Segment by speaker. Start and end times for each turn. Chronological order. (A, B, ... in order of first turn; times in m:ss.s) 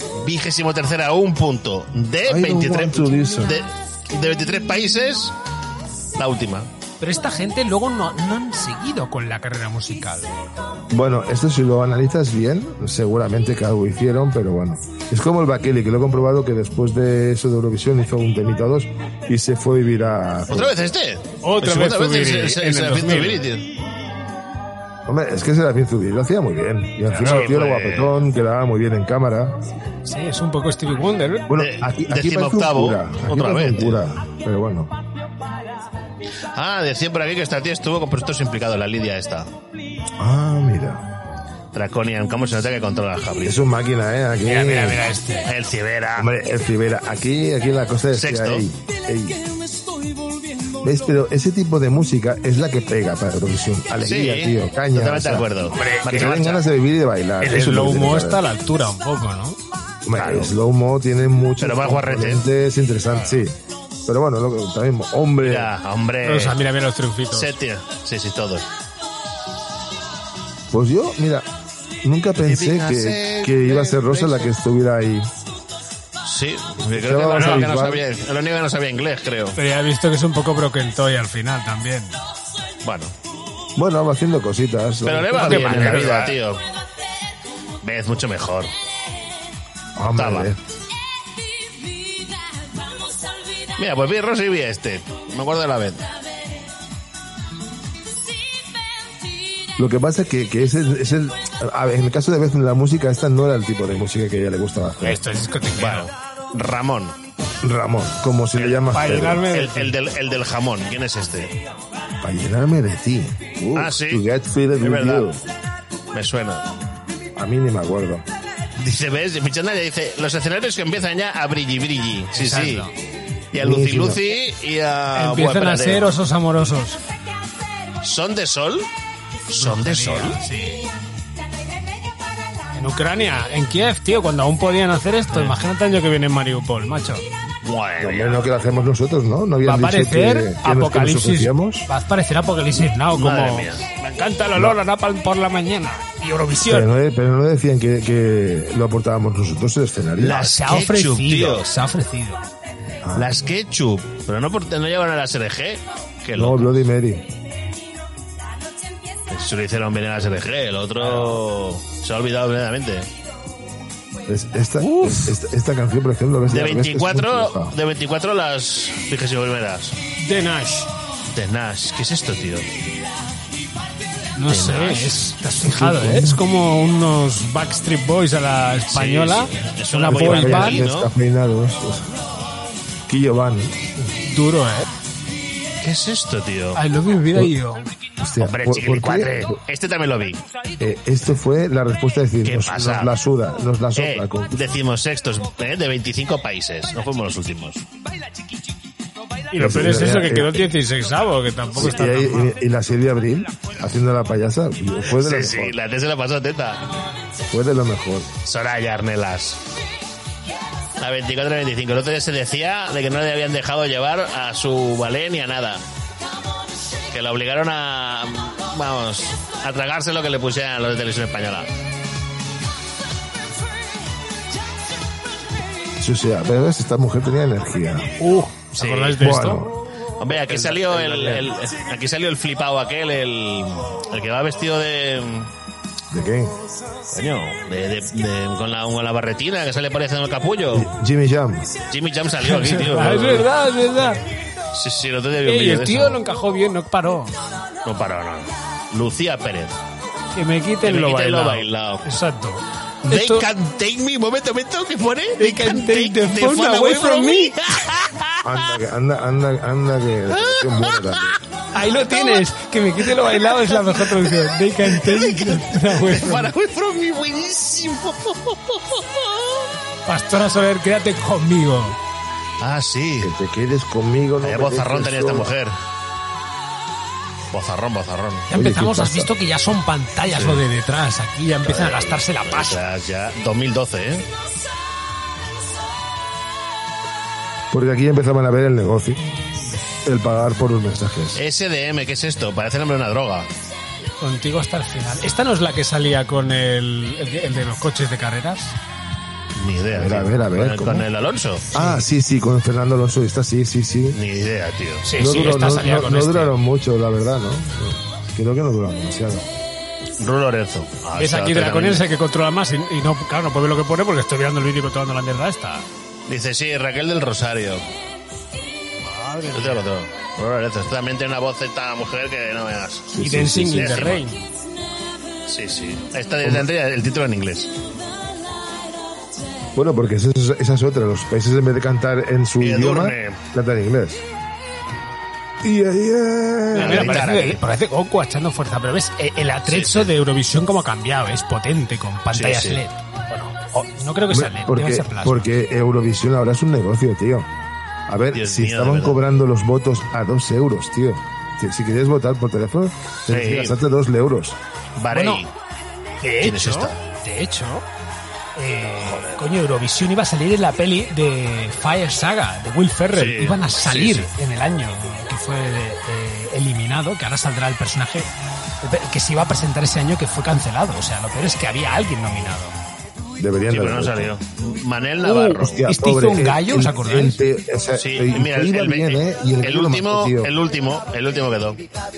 0:00.1-0:05.3 A
0:02.3-0:03.6 B
0:06.2-0:06.7 A
0:07.0-0:10.4 C
0:10.9-0:20.8 B
0:20.5-0:23.7 A
0:21.4-0:23.4 C
0:25.1-0:29.6 B
0:27.1-0:28.2 A
0:30.0-0:31.5 C
0:31.5-0:35.0 B
0:31.6-0:34.1 A
0:36.6-0:39.5 A
0:40.2-0:41.1 B
0:41.7-0:43.6 A
0:43.4-0:45.1 B
0:44.4-0:45.5 C
0:45.4-0:46.3 A
0:46.2-0:49.4 B
0:48.1-0:48.7 A
0:50.8-0:58.4 B
0:54.0-0:56.6 A
0:55.7-0:56.4 C
0:57.4-0:59.6 C
1:00.0-1:05.7 B
1:00.1-1:00.5 A
1:01.6-1:02.4 A
1:05.4-1:06.6 A
1:06.2-1:07.5 C
1:07.3-1:08.7 A
1:10.7-1:11.5 B
1:12.0-1:15.3 B
1:12.4-1:14.5 A
1:16.2-1:19.6 A
1:16.8-1:18.0 B
1:17.4-1:17.6 C
1:19.6-1:22.2 C
1:22.8-1:23.1 A
1:23.8-1:26.2 B
1:25.0-1:26.6 A
1:25.4-1:26.4 C
1:27.8-1:28.7 A
1:30.0-1:30.6 B
1:30.1-1:30.5 A
1:33.8-1:36.1 A
1:39.8-1:45.2 B
1:45.0-1:46.1 C
1:45.8-1:47.2 A
1:47.6-1:49.5 B
1:48.6-1:51.6 A
1:48.9-1:50.0 C
1:52.2-1:55.4 B
1:53.8-1:54.2 A
1:54.8-1:55.4 A
1:56.1-1:56.7 A
1:57.4-1:58.2 B
1:58.8-2:02.9 A
2:02.3-2:03.0 C
2:03.5-2:06.1 A
2:03.6-2:04.2 B
2:05.1-2:07.0 C
2:08.0-2:08.9 A
2:09.5-2:10.4 A
2:09.6-2:10.9 C
2:12.7-2:17.3 C
2:15.3-2:15.6 A
2:17.6-2:18.5 A
2:18.0-2:21.9 B
2:19.6-2:26.9 C
2:23.1-2:23.9 A
2:26.6-2:30.4 B
2:30.2-2:32.4 C
2:30.2-2:31.7 A
2:33.0-2:33.5 B
2:33.2-2:36.8 A
2:36.4-2:37.3 B
2:39.3-2:43.1 A
2:44.3-2:47.8 B
2:44.8-2:45.4 C
2:46.5-2:50.0 A
2:50.2-2:50.9 C
2:51.3-2:52.7 A
2:54.4-3:00.8 C
2:54.5-2:55.2 A
2:55.6-2:56.4 B
2:58.9-3:01.1 A
3:00.1-3:02.2 B
3:03.1-3:03.8 B
3:04.0-3:04.9 C
3:05.8-3:06.8 A
3:06.8-3:07.9 C
3:08.2-3:09.6 B
3:08.4-3:10.4 A
3:10.8-3:14.6 B
3:12.4-3:13.1 A
3:14.0-3:17.8 A
3:19.5-3:22.6 C
3:19.6-3:20.7 B
3:21.8-3:25.8 B
3:25.1-3:26.9 A
3:27.5-3:28.3 B
3:28.4-3:29.6 A
3:31.0-3:35.8 A
3:37.1-3:41.7 A
3:46.0-3:48.1 B
3:48.2-3:49.7 C
3:48.8-3:49.3 A
3:49.2-3:49.8 B
3:50.2-3:55.5 A
3:50.4-3:51.4 B
3:56.1-3:56.6 B
3:57.1-4:00.9 A
4:00.7-4:01.8 B
4:01.9-4:03.5 A
4:02.4-4:04.2 C
4:04.7-4:06.2 A
4:05.4-4:07.4 C
4:07.8-4:09.8 A
4:10.4-4:13.5 C
4:10.8-4:12.1 A
4:13.0-4:18.5 A
4:15.4-4:17.6 C
4:18.4-4:21.4 B
4:20.3-4:21.4 A
4:21.7-4:26.5 C
4:22.1-4:22.4 A
4:23.1-4:29.7 A
4:30.1-4:32.0 C
4:32.6-4:33.3 A
4:33.2-4:35.5 B
4:34.4-4:35.8 A
4:37.5-4:38.5 A
4:38.5-4:42.8 C
4:38.5-4:39.3 B
4:40.3-4:40.6 A
4:41.7-4:44.3 A
4:47.7-4:49.2 B
4:50.0-4:51.4 B
4:51.4-4:53.5 A
4:54.2-4:58.8 C
4:59.6-5:01.7 A
4:59.9-5:01.1 B
5:01.7-5:04.2 B
5:01.7-5:02.0 C
5:04.1-5:05.1 A
5:05.0-5:06.6 C
5:05.2-5:09.5 B
5:10.2-5:12.0 A
5:11.2-5:15.9 C
5:16.3-5:17.8 A
5:19.0-5:19.9 C
5:19.5-5:24.2 A
5:23.1-5:24.0 B
5:23.2-5:24.4 C
5:25.5-5:27.7 A
5:29.8-5:34.2 B
5:32.6-5:33.4 A
5:35.6-5:37.3 B
5:36.7-5:45.5 C
5:36.8-5:37.6 A
5:39.7-5:40.1 A
5:42.3-5:42.8 A
5:44.3-5:47.5 B
5:48.1-5:54.6 B
5:48.3-5:49.2 A
5:53.3-5:53.8 A
5:55.0-5:55.5 A
5:55.1-5:55.4 C
5:56.2-5:57.9 C
5:56.4-5:57.0 A
5:58.6-6:08.3 C
5:59.0-5:59.4 A
6:03.1-6:04.3 A
6:08.8-6:12.8 C
6:13.4-6:14.3 B
6:13.7-6:15.8 A
6:15.3-6:20.5 B
6:15.9-6:17.4 C
6:18.0-6:21.8 A